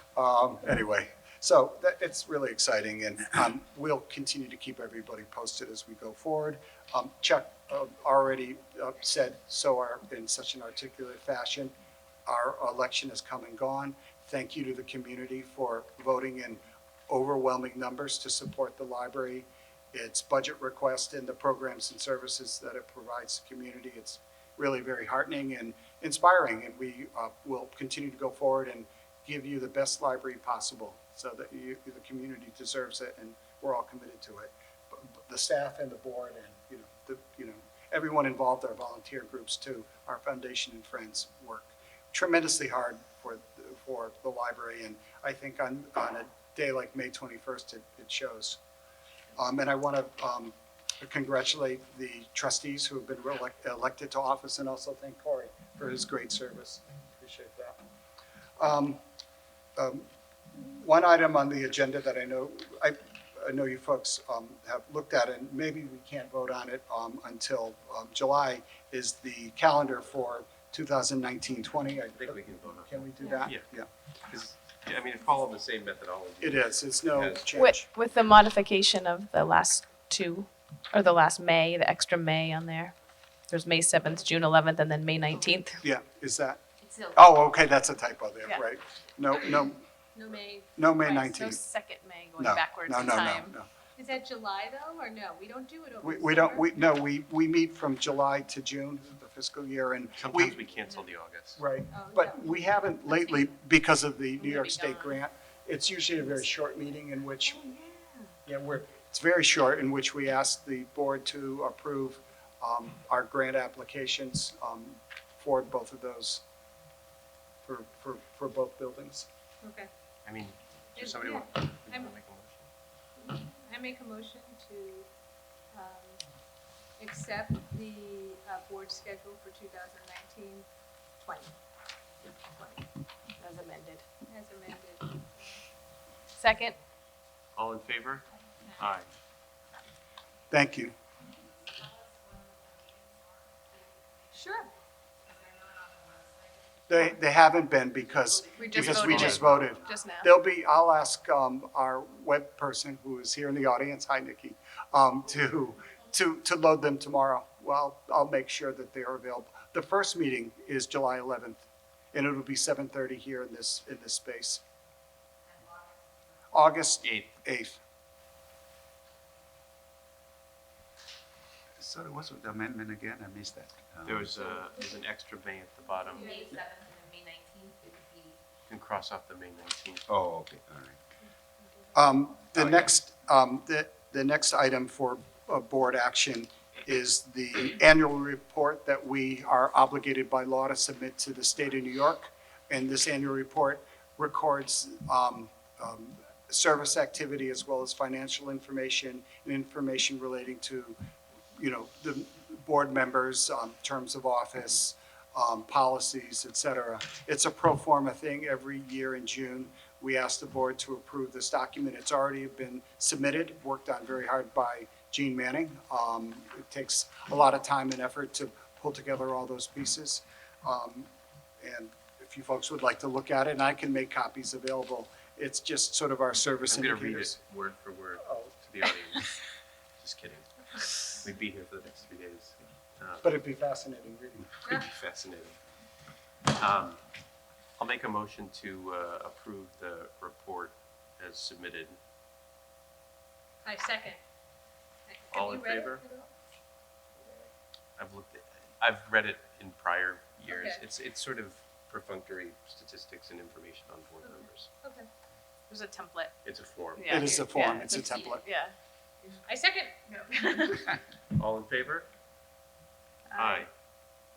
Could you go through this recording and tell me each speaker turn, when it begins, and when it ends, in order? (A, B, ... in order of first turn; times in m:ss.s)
0:00.1-0:11.7 A
0:12.2-0:48.6 A
0:49.4-0:57.8 A
0:58.6-0:59.0 A
0:59.8-1:13.9 A
1:12.2-1:13.6 B
1:14.3-1:17.5 B
1:16.4-1:17.9 A
1:17.5-1:22.9 C
1:23.5-1:25.8 C
1:25.8-1:29.8 A
1:26.8-1:27.2 D
1:30.1-1:30.9 E
1:30.8-1:31.6 A
1:31.0-1:33.5 C
1:32.4-1:33.7 A
1:34.0-1:36.9 E
1:36.0-1:40.6 A
1:40.2-1:41.6 B
1:41.6-1:47.7 A
1:41.9-1:43.4 E
1:44.5-1:45.0 E
1:47.6-1:48.3 C
1:48.4-1:56.4 A
1:57.6-1:59.3 A
1:59.6-1:59.9 E
2:00.2-2:02.7 B
2:01.0-2:02.1 E
2:03.2-2:05.1 E
2:05.7-2:06.2 E
2:07.0-2:10.6 E
2:11.2-2:11.5 E
2:12.4-2:12.8 E
2:13.4-2:14.0 C
2:14.3-2:15.6 E
2:16.4-2:16.8 C
2:17.6-2:19.1 B
2:20.5-2:20.9 A
2:24.3-2:24.7 E
2:26.9-2:44.6 A
2:28.5-2:30.3 C
2:28.6-2:29.4 E
2:46.5-2:47.8 A
2:47.0-2:47.3 B
2:51.8-2:54.4 F
2:54.0-2:56.4 B
2:56.1-2:56.5 E
2:56.2-2:58.4 D
2:58.7-3:00.1 B
3:00.1-3:01.0 F
3:01.9-3:21.0 A
3:02.5-3:02.9 B
3:21.6-3:47.4 A
3:46.7-3:49.4 B
3:48.2-3:48.6 A
3:50.0-3:53.4 B
3:53.2-3:54.5 A
3:54.7-3:55.6 B
3:56.5-3:57.0 B
3:57.8-4:02.0 B
4:03.6-4:04.2 E
4:05.1-4:06.3 E
4:05.3-4:06.0 B
4:08.0-4:14.7 B
4:10.5-4:10.8 E
4:14.2-4:15.1 E
4:15.7-4:16.3 C
4:16.4-4:17.4 B
4:17.0-4:19.4 C
4:17.1-4:18.4 A
4:19.4-4:19.9 E
4:20.1-4:20.7 D
4:20.3-4:20.9 C
4:21.3-4:22.1 B
4:23.3-4:23.6 C
4:23.3-4:23.7 B